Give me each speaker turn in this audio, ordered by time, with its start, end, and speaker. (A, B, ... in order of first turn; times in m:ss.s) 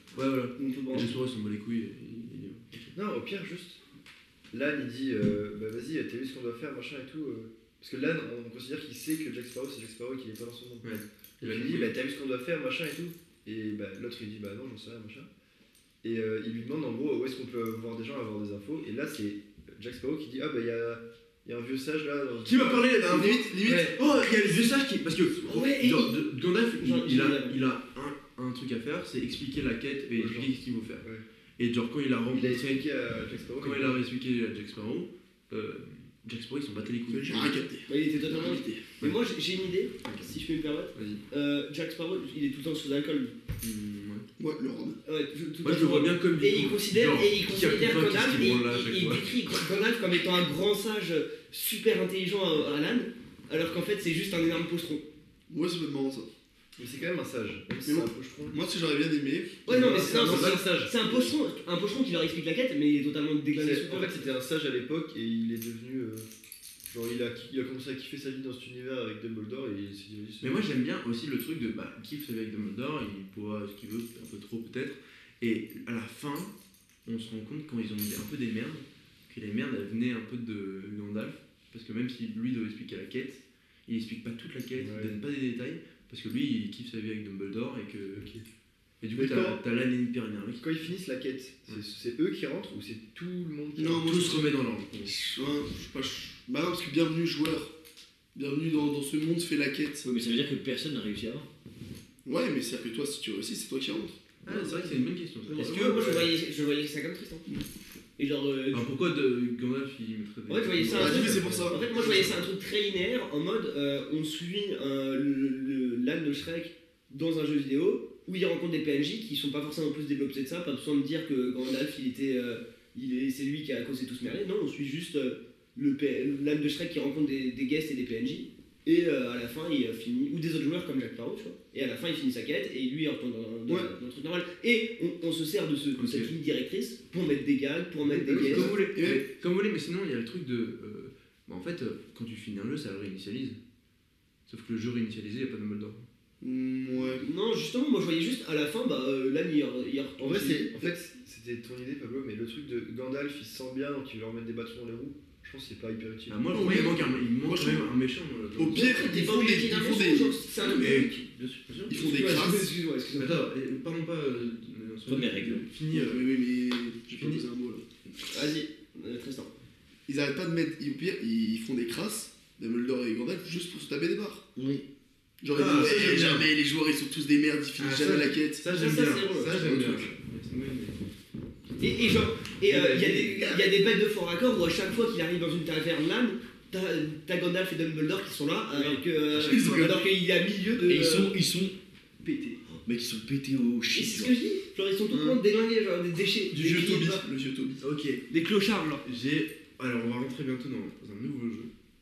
0:00.1-0:02.9 A
0:00.6-0:01.1 B
0:02.9-0:03.8 C
0:04.5-0:10.9 C
0:10.8-0:11.9 A
0:11.4-0:15.3 C
0:16.0-0:23.0 C
0:22.4-0:31.0 A
0:23.1-0:24.0 D
0:23.7-0:23.9 B
0:25.4-0:26.2 B
0:26.8-0:27.6 B
0:30.1-0:31.2 C
0:31.6-0:32.8 A
0:32.3-0:34.0 C
0:33.6-0:37.6 A
0:37.1-0:38.9 D
0:37.9-0:43.4 B
0:41.0-0:41.2 A
0:43.6-0:44.3 A
0:44.4-0:45.0 D
0:45.0-0:55.0 B
0:45.6-0:49.3 A
0:55.5-0:56.3 D
0:56.8-0:58.6 C
0:57.8-1:00.5 D
0:59.7-1:04.3 B
0:59.7-1:01.3 C
1:03.6-1:06.3 C
1:06.9-1:10.6 C
1:10.4-1:16.5 A
1:17.1-1:28.3 A
1:24.8-1:25.1 C
1:29.0-1:30.8 A
1:29.2-1:29.6 C
1:30.6-1:34.1 C
1:33.8-1:34.4 D
1:34.0-1:35.1 A
1:35.0-1:37.7 D
1:38.4-1:40.1 D
1:40.0-1:41.5 E
1:42.2-1:44.9 D
1:44.4-1:46.3 A
1:45.5-1:47.4 B
1:48.2-1:48.9 B
1:48.7-1:52.3 A
1:50.5-2:18.7 B
1:50.9-1:52.4 D
2:16.0-2:16.3 A
2:18.3-2:19.2 D
2:18.3-2:23.6 A
2:24.5-2:26.0 A
2:26.4-2:27.2 D
2:27.2-2:30.9 B
2:30.2-2:36.5 C
2:36.3-2:39.1 A
2:36.5-2:37.9 D
2:38.6-2:40.6 D
2:38.7-2:41.2 B
2:40.6-2:42.3 A
2:41.9-2:42.7 D
2:41.9-2:43.5 B
2:43.2-2:46.3 A
2:45.1-2:45.7 E
2:45.9-2:47.9 D
2:48.3-2:49.5 B
2:50.1-2:54.8 D
2:55.4-2:58.6 D
2:55.5-2:56.5 A
2:57.8-3:01.0 A
2:58.6-3:00.0 B
2:59.5-3:00.1 D
3:01.8-3:11.3 B
3:02.7-3:03.4 A
3:08.7-3:09.9 C
3:09.4-3:10.0 D
3:10.8-3:11.7 E
3:12.2-3:12.6 B
3:12.8-3:14.3 E
3:13.9-3:17.2 B
3:15.1-3:15.4 D
3:16.5-3:17.8 D
3:17.8-3:18.2 A
3:18.3-3:19.0 B
3:19.0-3:21.7 A